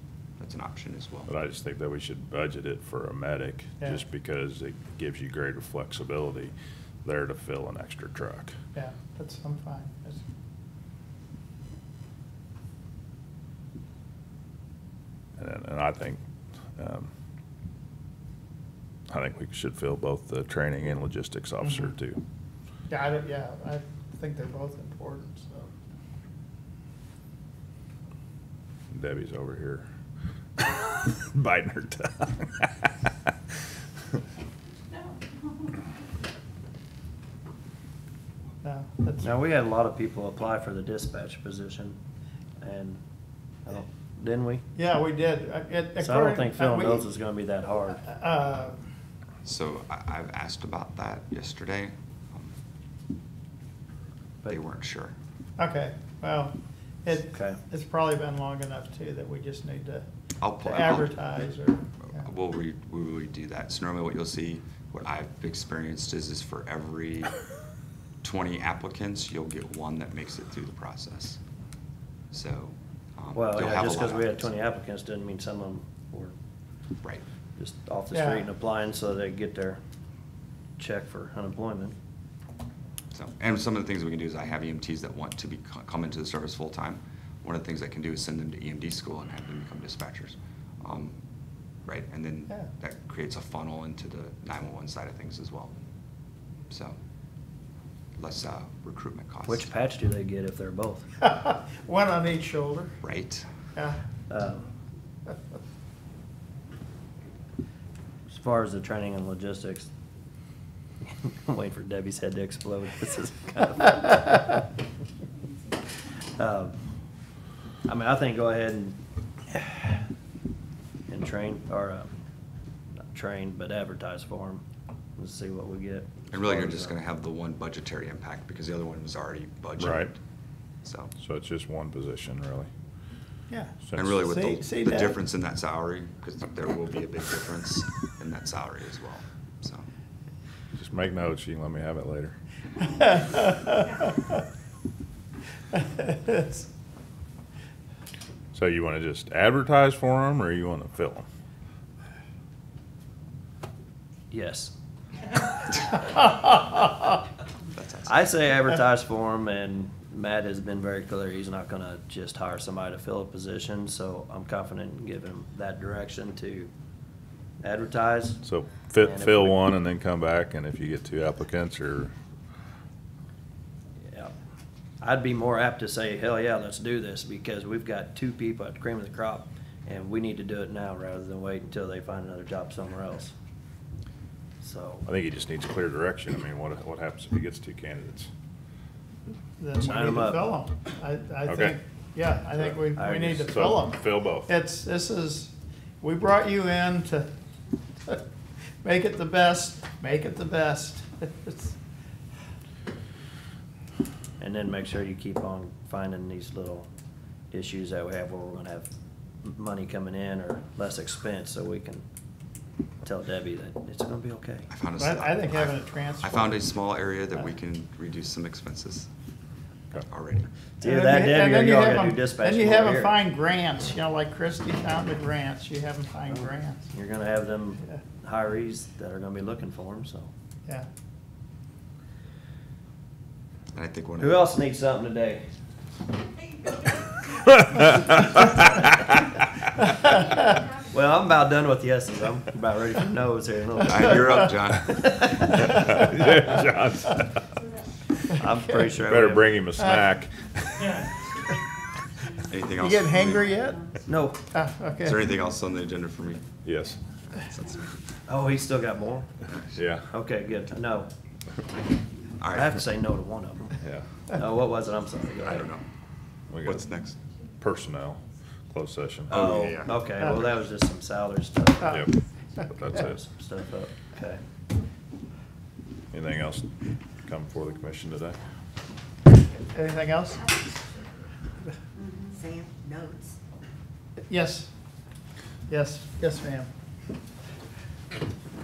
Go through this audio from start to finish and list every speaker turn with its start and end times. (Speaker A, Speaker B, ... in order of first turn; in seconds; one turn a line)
Speaker A: 0.4-1.3
Speaker B: 1.3-6.5
Speaker B: 7.0-8.5
Speaker C: 8.7-10.2
Speaker B: 15.4-16.2
Speaker B: 16.8-17.1
Speaker B: 19.1-22.2
Speaker C: 22.9-25.7
Speaker B: 28.9-29.9
Speaker B: 30.6-32.9
Speaker C: 38.6-39.3
Speaker D: 39.2-42.0
Speaker D: 42.6-43.0
Speaker D: 43.6-44.6
Speaker C: 44.8-47.1
Speaker D: 46.0-48.1
Speaker C: 48.0-48.8
Speaker A: 49.4-52.5
Speaker A: 54.5-55.1
Speaker C: 55.6-56.5
Speaker C: 57.0-60.0
Speaker D: 57.3-57.6
Speaker A: 60.4-61.2
Speaker C: 60.6-61.8
Speaker A: 62.0-67.3
Speaker A: 68.2-71.4
Speaker A: 72.3-74.5
Speaker D: 73.3-76.3
Speaker D: 77.6-79.8
Speaker C: 78.1-78.5
Speaker D: 80.8-82.0
Speaker A: 83.1-91.2
Speaker A: 91.8-95.7
Speaker A: 96.7-97.0
Speaker A: 98.2-99.7
Speaker D: 99.5-101.0
Speaker C: 101.2-102.9
Speaker A: 103.0-103.5
Speaker D: 104.3-104.7
Speaker D: 108.3-109.9
Speaker D: 111.1-114.5
Speaker D: 116.4-116.7
Speaker D: 117.8-119.0
Speaker D: 119.5-120.0
Speaker D: 121.1-122.1
Speaker D: 123.1-124.6
Speaker D: 125.2-127.0
Speaker A: 126.3-130.2
Speaker B: 129.8-130.1
Speaker A: 130.8-131.1
Speaker B: 131.2-132.7
Speaker C: 133.5-135.2
Speaker B: 133.8-134.2
Speaker A: 133.9-139.9
Speaker B: 140.8-142.3
Speaker C: 143.2-143.8
Speaker C: 146.0-146.6
Speaker B: 148.5-151.3
Speaker D: 154.3-154.7
Speaker A: 157.7-158.2
Speaker D: 158.1-166.7
Speaker D: 167.6-168.4
Speaker B: 168.4-172.1
Speaker D: 169.0-169.6
Speaker D: 175.0-183.3
Speaker D: 184.6-185.1
Speaker B: 185.1-188.3
Speaker C: 189.6-197.3
Speaker D: 189.8-190.5
Speaker B: 191.5-191.8
Speaker D: 192.9-193.5
Speaker B: 193.4-194.5
Speaker C: 198.8-201.7
Speaker D: 204.4-206.9
Speaker D: 207.5-208.9
Speaker D: 209.4-212.0
Speaker D: 213.0-214.7
Speaker A: 214.7-219.1
Speaker C: 215.0-216.6
Speaker A: 220.0-220.5
Speaker D: 220.8-223.2
Speaker C: 220.8-226.8
Speaker D: 226.3-230.3
Speaker A: 233.7-234.5
Speaker D: 234.2-235.4
Speaker D: 240.9-244.4
Speaker A: 243.8-245.1
Speaker C: 244.0-244.4
Speaker D: 245.0-245.5
Speaker B: 245.7-247.4
Speaker D: 248.3-249.6
Speaker B: 248.9-251.0
Speaker A: 252.5-253.5
Speaker C: 252.8-255.2
Speaker D: 254.1-254.4
Speaker A: 255.0-256.4
Speaker B: 256.6-257.0
Speaker A: 257.3-257.8
Speaker D: 258.3-259.3
Speaker A: 259.4-259.8
Speaker B: 259.8-260.0
Speaker D: 260.1-261.1
Speaker A: 262.4-262.7
Speaker D: 262.5-263.8
Speaker D: 264.3-265.6
Speaker A: 265.4-265.8
Speaker B: 266.5-266.8
Speaker A: 266.6-267.2
Speaker B: 267.6-268.2
Speaker B: 268.7-269.4
Speaker D: 269.3-272.0
Speaker A: 269.3-270.1
Speaker B: 271.9-273.2
Speaker D: 273.0-274.4
Speaker B: 276.1-276.7
Speaker B: 277.2-278.4
Speaker C: 279.7-280.5
Speaker C: 284.3-284.7
Speaker C: 285.7-286.7